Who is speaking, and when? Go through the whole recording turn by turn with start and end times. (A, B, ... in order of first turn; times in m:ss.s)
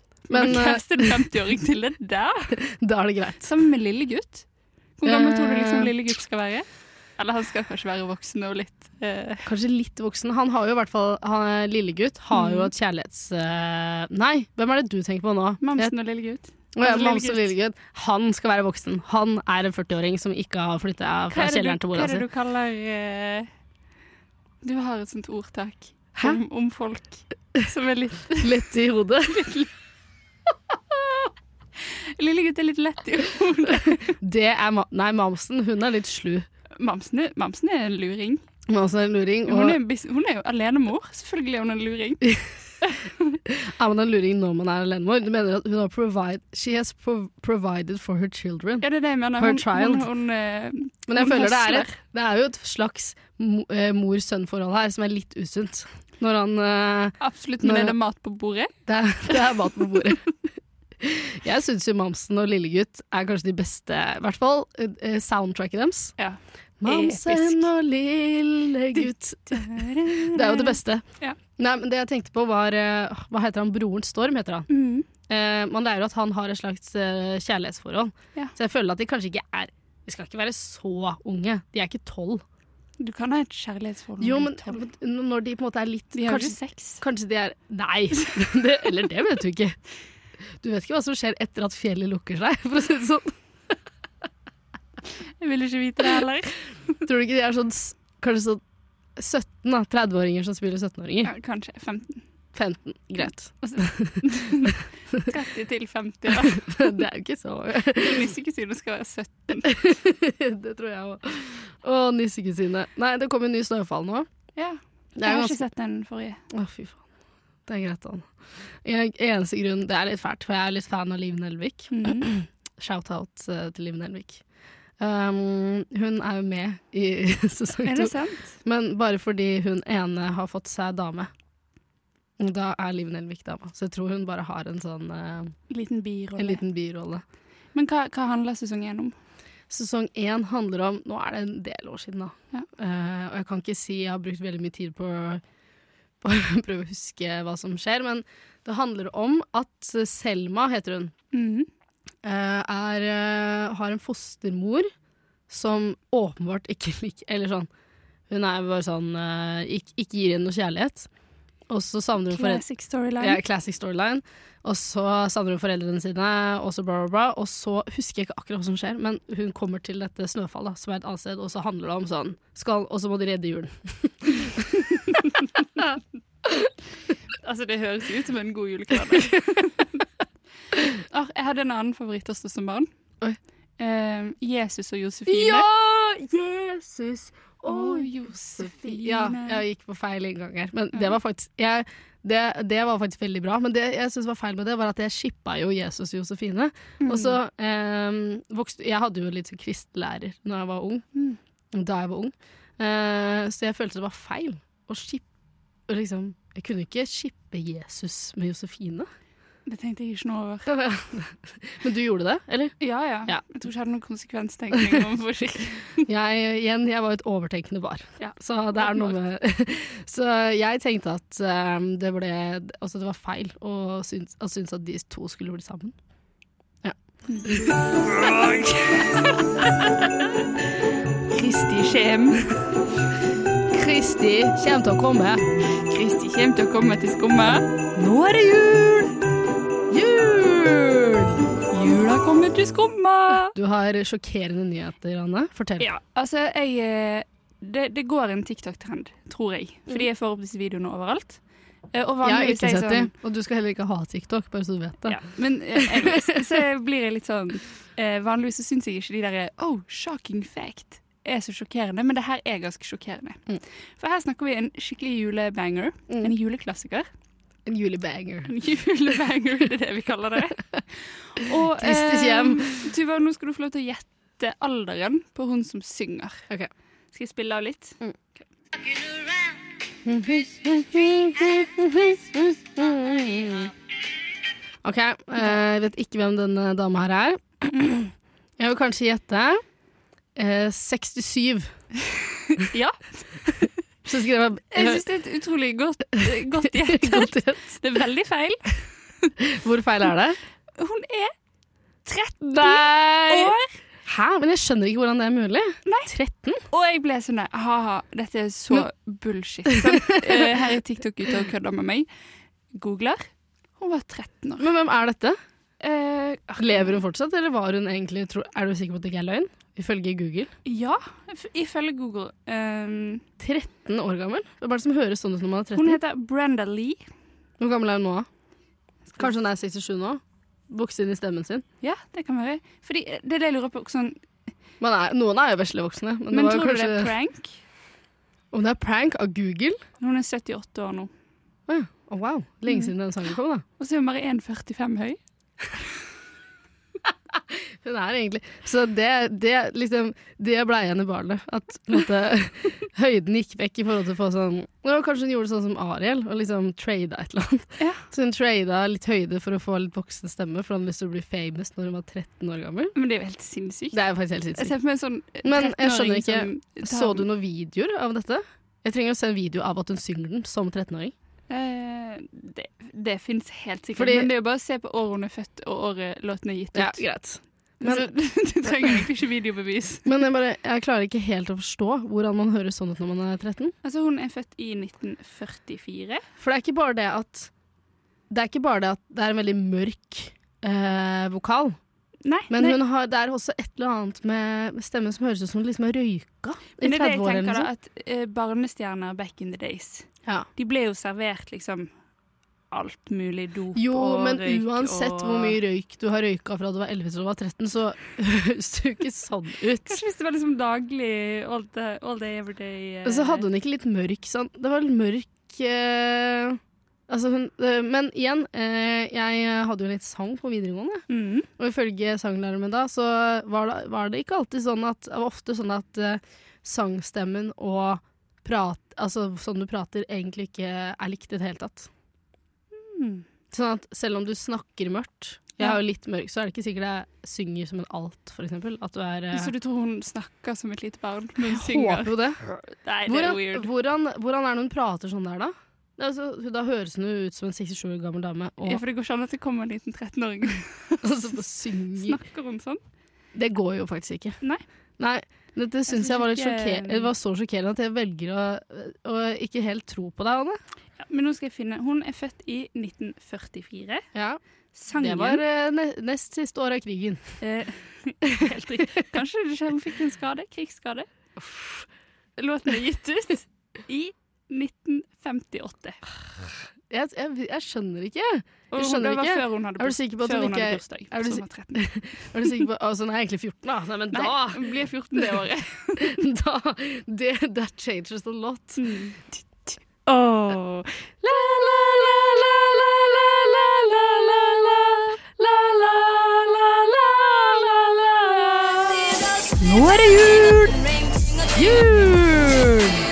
0:00.3-0:02.5 A
0:00.3-0:01.1 B
0:02.6-0:03.4 B
0:03.4-0:04.4 A
0:05.0-0:06.7 A
0:05.0-0:05.9 B
0:07.2-0:09.5 A
0:09.5-0:15.9 B
0:12.3-0:12.7 A
0:15.6-0:17.6 A
0:16.8-0:22.2 B
0:21.3-0:23.5 A
0:24.6-0:28.7 A
0:28.4-0:29.5 B
0:29.3-0:29.7 A
0:31.8-0:34.2 A
0:33.7-0:36.5 B
0:36.8-0:38.4 A
0:38.7-0:39.8 B
0:39.5-0:42.3 A
0:42.8-0:43.4 A
0:43.5-0:48.9 B
0:48.8-0:52.0 A
0:49.4-0:50.1 B
0:51.1-0:58.0 B
0:57.2-0:58.7 A
0:58.9-1:00.3 B
1:01.0-1:06.2 B
1:06.2-1:07.7 A
1:06.8-1:11.0 B
1:08.9-1:11.4 A
1:11.6-1:14.7 B
1:14.7-1:15.1 A
1:15.3-1:22.4 B
1:23.0-1:24.8 A
1:24.2-1:29.8 B
1:26.1-1:27.0 A
1:30.6-1:33.3 B
1:35.4-1:37.0 A
1:37.1-1:38.6 B
1:39.2-1:41.3 B
1:41.2-1:42.2 A
1:42.6-1:44.2 B
1:43.6-1:47.0 A
1:46.3-1:48.3 B
1:48.0-1:49.8 A
1:49.6-1:54.3 B
1:54.6-1:56.4 A
1:55.2-1:55.6 B
1:56.5-1:57.0 B
1:57.7-1:58.2 B
1:58.8-2:04.4 B
2:01.9-2:02.3 A
2:05.0-2:11.3 B
2:07.8-2:08.6 A
2:12.4-2:15.5 B
2:15.7-2:16.6 A
2:16.4-2:17.2 B
2:17.7-2:19.1 A
2:19.7-2:25.4 B
2:26.2-2:31.1 B
2:31.3-2:31.7 A
2:32.2-2:34.9 B
2:35.5-2:37.7 B
2:38.3-2:41.1 B
2:41.7-2:42.6 B
2:42.3-2:43.4 A
2:43.2-2:55.2 B
2:57.4-3:00.0 A
3:01.0-3:02.9 A
3:03.8-3:05.7 A
3:05.3-3:21.0 B
3:07.7-3:09.6 A
3:17.0-3:17.4 A
3:21.7-3:25.3 B
3:25.9-3:29.1 B
3:29.7-3:30.7 A
3:30.7-3:32.8 B
3:32.8-3:36.0 A
3:34.7-3:35.0 B
3:36.1-3:45.9 B
3:38.2-3:39.2 A
3:46.8-3:47.8 B
3:47.3-3:49.6 A
3:51.3-3:52.5 A
3:53.7-3:55.4 B
3:55.8-3:59.1 A
3:59.9-4:01.4 B
4:01.7-4:03.5 A
4:03.6-4:05.9 B
4:05.8-4:11.4 A
4:11.9-4:13.1 A
4:12.2-4:15.2 B
4:15.0-4:23.4 A
4:15.8-4:16.5 B
4:24.0-4:27.1 A
4:27.7-4:28.5 B
4:28.5-4:36.4 A
4:31.8-4:32.9 B
4:37.1-4:38.5 A
4:40.1-4:43.7 B
4:44.8-4:49.6 B
4:50.4-4:51.7 B
4:52.6-4:53.7 A
4:54.1-4:55.0 B
4:54.7-4:59.3 A
4:56.6-4:57.7 B
4:59.5-5:00.4 B
5:00.8-5:01.3 A
5:02.0-5:03.8 A
5:02.5-5:06.6 B
5:05.9-5:06.1 A
5:06.7-5:12.1 A
5:09.7-5:10.2 B
5:12.7-5:14.7 A
5:14.6-5:15.4 B
5:15.8-5:17.0 A
5:16.6-5:20.5 B
5:20.6-5:23.2 A
5:23.4-5:26.0 B
5:25.8-5:27.0 A
5:27.6-5:28.3 B
5:29.2-5:31.6 B
5:31.8-5:34.2 A
5:34.8-5:37.1 B
5:36.3-5:37.6 A
5:38.5-5:39.8 B
5:40.0-5:41.1 A
5:41.7-5:43.6 B
5:43.8-5:45.2 A
5:47.5-6:02.9 B
5:57.8-5:58.1 A
6:03.0-6:04.0 A
6:03.9-6:04.8 B
6:04.6-6:07.3 A
6:05.4-6:11.1 B
6:11.5-6:17.0 A
6:14.0-6:14.3 B
6:16.7-6:18.1 B
6:17.8-6:20.0 A
6:18.6-6:19.0 B
6:20.0-6:23.7 B
6:23.8-6:26.2 A
6:26.4-6:27.5 B
6:28.3-6:31.8 B
6:32.2-6:32.8 A
6:32.5-6:37.7 B
6:36.8-6:40.1 A
6:40.6-6:41.9 A
6:42.7-6:45.6 A
6:43.8-6:50.0 B
6:49.9-6:53.5 A
6:53.0-7:01.0 B
7:01.1-7:01.5 A
7:01.6-7:11.9 B
7:12.7-7:13.2 A
7:13.5-7:19.5 B
7:19.3-7:23.7 A
7:21.4-7:22.4 B
7:23.1-7:28.8 B
7:28.6-7:31.4 A
7:31.0-7:32.2 B
7:32.0-7:32.8 A
7:33.4-7:34.4 B
7:35.0-7:40.6 B
7:35.9-7:37.1 A
7:41.0-7:44.0 A
7:44.1-7:44.4 B
7:44.7-7:45.4 A
7:44.9-7:47.4 B
7:47.4-7:51.1 A
7:51.4-7:51.8 B
7:52.4-7:56.0 A
7:56.9-8:08.8 B
7:58.7-8:01.8 A
8:04.1-8:06.2 A
8:08.8-8:09.2 A
8:10.1-8:11.1 A
8:11.2-8:19.1 B
8:19.6-8:20.9 A
8:21.6-8:22.9 B